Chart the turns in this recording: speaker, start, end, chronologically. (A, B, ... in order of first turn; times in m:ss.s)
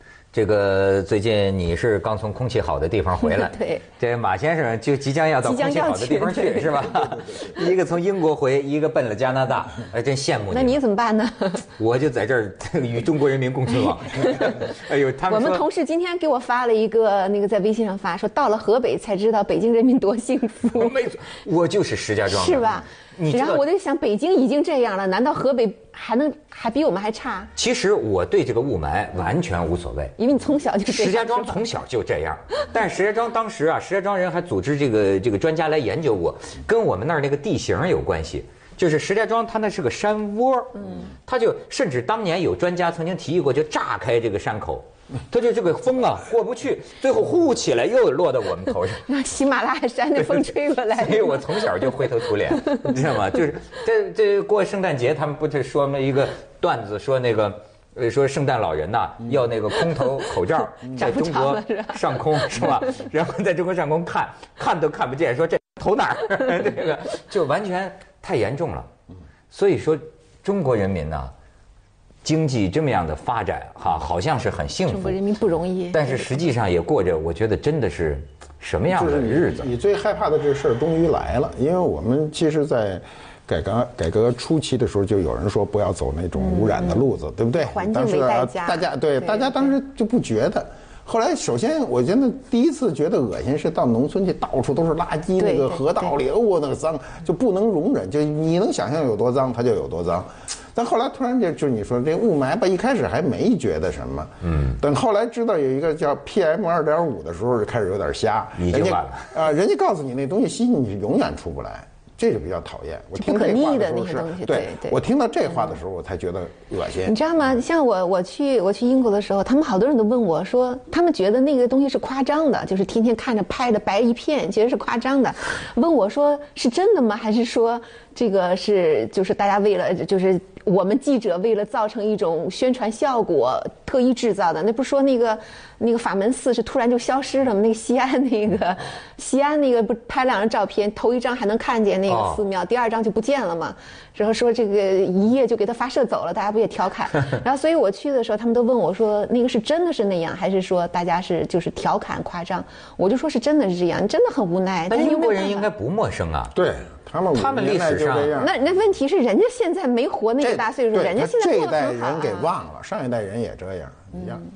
0:00.3-0:10.8 A
0:03.2-0:03.8 B
0:05.4-0:07.0 B
0:10.5-0:11.7 B
0:11.8-0:15.6 A
0:15.3-0:21.0 B
0:20.8-0:23.6 A
0:22.3-0:27.5 B
0:27.6-0:30.2 A
0:30.2-0:31.6 B
0:30.9-0:49.0 A
0:49.1-0:52.8 B
0:50.2-1:08.9 A
1:00.8-1:02.8 B
1:09.5-1:11.3 A
1:12.2-1:15.2 A
1:14.9-1:16.3 B
1:15.9-1:19.7 A
1:18.9-1:57.2 C
1:26.4-1:27.0 B
1:27.6-1:29.7 B
1:35.4-1:36.1 B
1:44.5-1:44.8 A
1:48.6-1:49.4 A
1:53.2-1:55.0 B
1:57.1-2:35.7 B
2:22.1-2:22.4 A
2:34.9-2:36.5 A
2:36.5-2:38.6 C
2:37.3-2:38.3 A
2:38.4-2:42.6 B
2:40.4-2:44.4 C